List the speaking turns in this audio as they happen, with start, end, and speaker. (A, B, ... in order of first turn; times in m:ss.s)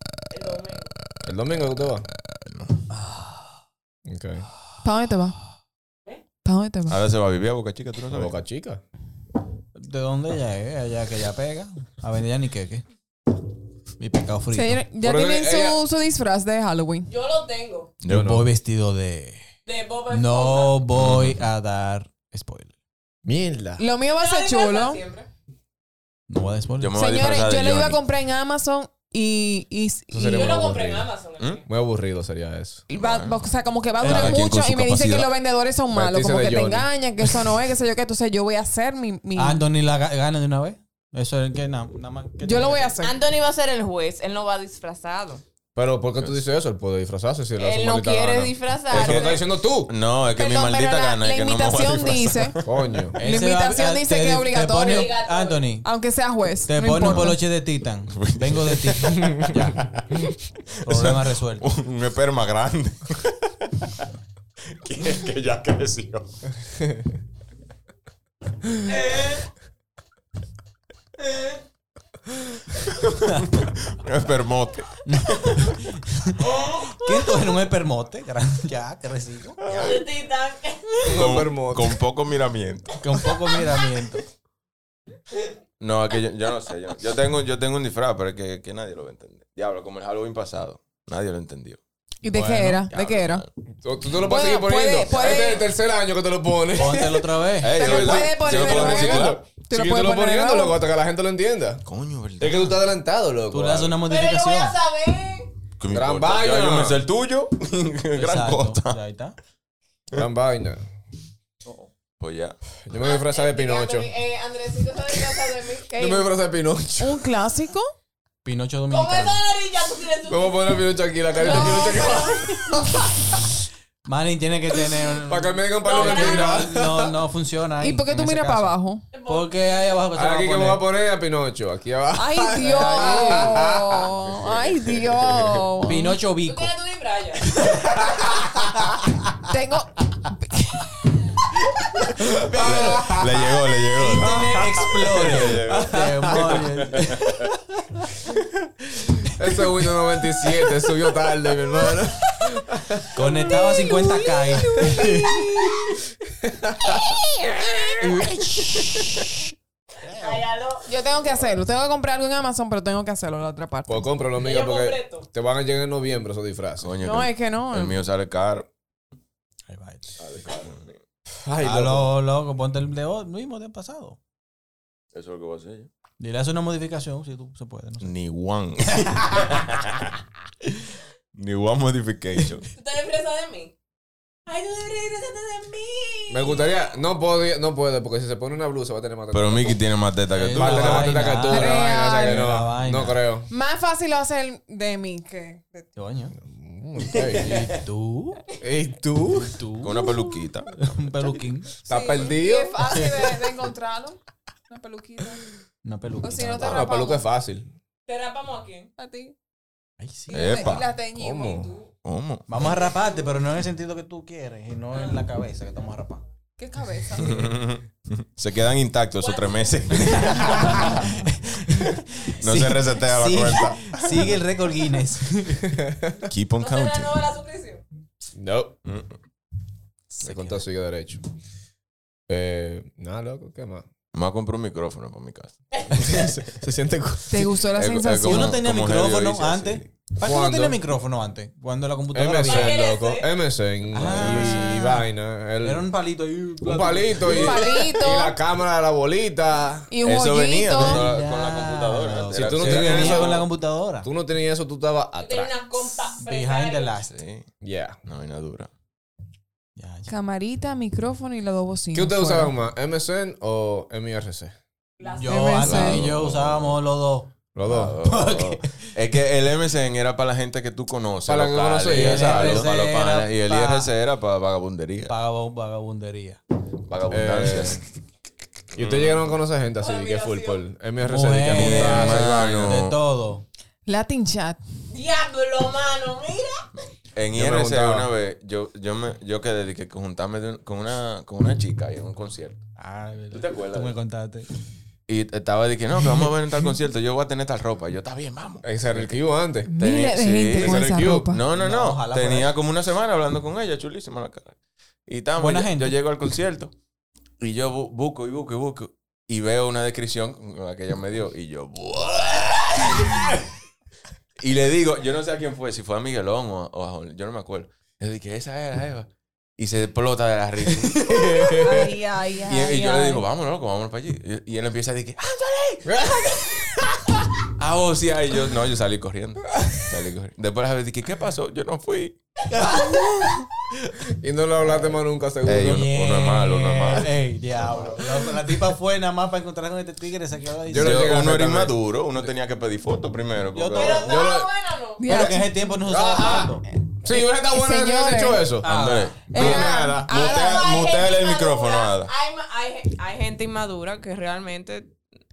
0:00.3-0:00.9 A
0:01.2-0:02.1 B
0:02.2-0:02.8 C
0:04.0-0:04.5 B
0:04.8-0:05.4 D
0:06.4-0:07.0 D
0:06.9-0:08.4 C
0:08.1-0:08.8 B
0:09.7-0:12.8 E
0:14.0-0:14.9 E
0:14.5-0:17.1 D
0:15.0-0:15.8 B
0:17.1-0:17.9 A
0:18.1-0:19.4 E
0:18.1-0:18.5 B
0:19.6-0:20.8 A
0:20.1-0:22.7 E
0:20.9-0:21.4 C
0:23.2-0:23.8 B
0:23.8-0:25.0 D
0:24.2-0:25.3 A
0:26.3-0:27.0 E
0:26.8-0:28.0 C
0:26.9-0:30.5 D
0:30.1-0:31.1 B
0:30.3-0:31.6 A
0:31.6-0:32.8 B
0:32.9-0:39.7 D
0:32.9-0:33.5 C
0:34.0-0:34.5 E
0:34.0-0:35.3 C
0:35.9-0:36.9 B
0:37.2-0:37.6 E
0:39.3-0:43.0 E
0:42.4-0:43.1 D
0:43.0-0:45.4 A
0:45.7-0:49.9 B
0:47.6-0:49.4 A
0:48.9-0:52.6 C
0:50.3-0:52.6 D
0:52.6-0:53.2 B
0:53.1-0:55.9 E
0:53.2-0:55.1 D
0:54.8-0:55.7 A
0:55.7-0:57.4 D
0:56.6-1:00.1 E
0:58.1-1:00.3 C
0:59.2-0:59.5 B
1:00.8-1:01.7 E
1:00.8-1:03.9 C
1:04.7-1:06.3 C
1:12.8-1:15.7 C
1:13.3-1:13.6 E
1:15.0-1:20.0 E
1:16.5-1:16.9 A
1:19.7-1:20.0 C
1:19.7-1:21.2 A
1:21.0-1:22.0 B
1:21.0-1:23.0 C
1:23.0-1:24.2 E
1:25.8-1:31.8 C
1:32.2-1:33.4 D
1:32.2-1:32.9 E
1:32.9-1:33.5 C
1:33.8-1:37.3 B
1:34.2-1:35.7 D
1:35.1-1:35.6 C
1:36.7-1:38.0 E
1:37.6-1:39.4 C
1:37.7-1:40.8 D
1:38.0-1:41.8 B
1:41.8-1:42.7 C
1:42.4-1:44.0 B
1:43.5-1:44.8 E
1:44.1-1:45.5 A
1:45.8-1:49.0 C
1:45.9-1:47.0 B
1:48.1-1:49.4 E
1:50.1-1:50.8 B
1:52.2-1:52.6 C
1:52.9-1:54.1 B
1:53.0-1:56.3 A
1:55.9-1:57.3 B
1:57.0-1:57.8 D
1:58.4-1:59.4 E
1:58.9-2:00.8 A
2:00.3-2:03.2 B
2:01.4-2:01.9 D
2:01.4-2:02.8 A
2:01.5-2:02.2 E
2:04.0-2:10.8 E
2:05.2-2:07.1 B
2:05.8-2:06.6 A
2:07.8-2:09.1 D
2:09.1-2:09.8 A
2:10.1-2:14.0 B
2:12.2-2:16.2 D
2:12.6-2:13.6 E
2:14.4-2:15.2 C
2:15.8-2:16.7 E
2:16.4-2:17.6 A
2:17.5-2:19.5 E
2:19.5-2:20.9 D
2:22.1-2:27.5 C
2:22.3-2:23.3 E
2:22.5-2:23.2 B
2:24.0-2:28.1 E
2:29.3-2:33.2 B
2:33.1-2:35.9 E
2:33.3-2:35.8 D
2:36.4-2:36.8 B
2:36.8-2:38.7 D
2:38.2-2:38.8 E
2:40.0-2:40.4 E
2:40.2-2:40.9 A
2:40.8-2:44.0 D
2:43.9-2:46.9 B
2:44.4-2:45.3 A
2:46.8-2:48.7 C
2:47.0-2:48.0 D
2:49.7-2:50.1 E
2:50.2-2:51.0 C
2:51.4-2:52.1 B
2:51.6-2:54.2 E
2:55.1-2:55.9 C
2:56.2-2:58.1 E
2:58.0-3:00.1 C
3:01.3-3:02.7 C
3:02.8-3:03.7 A
3:04.5-3:06.8 A
3:06.3-3:09.8 B
3:09.3-3:11.2 C
3:10.3-3:13.2 E
3:10.6-3:13.5 B
3:11.5-3:12.4 D
3:13.5-3:15.9 D
3:16.0-3:16.3 E
3:16.4-3:17.6 B
3:17.2-3:18.4 E
3:18.6-3:19.5 B
3:19.3-3:21.8 E
3:19.8-3:20.7 C
3:21.9-3:22.8 B
3:21.9-3:25.4 D
3:22.9-3:23.3 E
3:25.8-3:26.8 E
3:26.2-3:27.2 D
3:26.6-3:27.7 B
3:28.1-3:28.9 A
3:29.0-3:29.3 D
3:30.0-3:30.6 E
3:30.3-3:31.9 D
3:30.3-3:30.8 C
3:31.2-3:31.7 B
3:32.0-3:32.5 C
3:32.5-3:36.2 E
3:34.9-3:35.2 A
3:36.6-3:37.5 D
3:37.2-3:41.1 C
3:39.2-3:39.6 A
3:40.1-3:45.7 E
3:42.4-3:44.4 C
3:45.6-3:46.1 B
3:46.2-3:47.2 C
3:46.6-3:47.8 A
3:48.3-3:48.8 B
3:48.8-3:49.2 C
3:50.1-3:50.6 E
3:50.2-3:51.2 B
3:52.3-3:53.8 B
3:54.1-3:56.5 C
3:55.7-3:56.1 A
3:55.9-3:57.4 B
3:57.3-3:58.6 D
3:57.7-3:59.9 C
3:58.2-4:02.8 E
4:00.2-4:00.8 B
4:02.1-4:05.8 B
4:02.4-4:03.2 A
4:03.9-4:05.1 E
4:04.0-4:04.5 C
4:05.6-4:08.1 E
4:06.6-4:09.9 B
4:07.2-4:08.4 D
4:09.9-4:11.1 D
4:10.0-4:13.4 C
4:10.7-4:14.1 E
4:12.3-4:13.5 B
4:14.0-4:15.6 B
4:15.2-4:17.0 A
4:16.2-4:17.1 E
4:17.1-4:17.5 C
4:17.6-4:18.0 B
4:18.0-4:18.7 C
4:19.8-4:20.1 E
4:20.1-4:22.5 D
4:21.9-4:24.5 B
4:25.0-4:25.5 A
4:25.0-4:27.4 E
4:25.2-4:26.0 D
4:25.6-4:26.8 C
4:27.5-4:28.0 B
4:27.7-4:35.1 C
4:27.9-4:28.9 E
4:31.2-4:32.7 B
4:31.9-4:33.9 E
4:35.0-4:36.4 E
4:36.9-4:37.8 C
4:37.1-4:37.8 B
4:38.7-4:39.2 C
4:38.7-4:42.7 B
4:39.8-4:40.6 A
4:41.0-4:43.4 E
4:41.5-4:43.0 C
4:43.9-4:44.6 D
4:44.9-4:46.6 A
4:46.8-4:52.6 C
4:47.3-4:48.1 B
4:52.8-4:54.5 E
4:53.3-4:54.0 C
4:55.1-4:59.2 C
4:58.6-4:59.7 B
4:59.7-5:01.4 D
4:59.8-5:04.6 C
5:00.6-5:01.1 B
5:01.4-5:02.6 E
5:05.1-5:06.7 C
5:05.4-5:06.0 E
5:07.4-5:13.3 C
5:14.4-5:21.9 C
5:21.1-5:21.7 B
5:21.1-5:21.8 E
5:21.6-5:23.2 D
5:22.4-5:26.0 C
5:25.8-5:27.0 B
5:27.6-5:32.2 C
5:32.5-5:33.4 E
5:34.0-5:35.8 B
5:35.4-5:37.9 C
5:35.5-5:41.2 E
5:40.7-5:41.7 B
5:40.7-5:44.2 C
5:43.5-5:44.3 E
5:43.7-5:45.1 A
5:44.1-5:44.5 B
5:45.0-5:45.6 D
5:45.1-5:46.6 E
5:45.9-5:48.7 B
5:47.1-5:48.5 D
5:48.6-5:49.2 E
5:48.6-5:52.1 C
5:49.3-5:50.3 B
5:49.3-5:50.6 D
5:50.1-5:54.9 A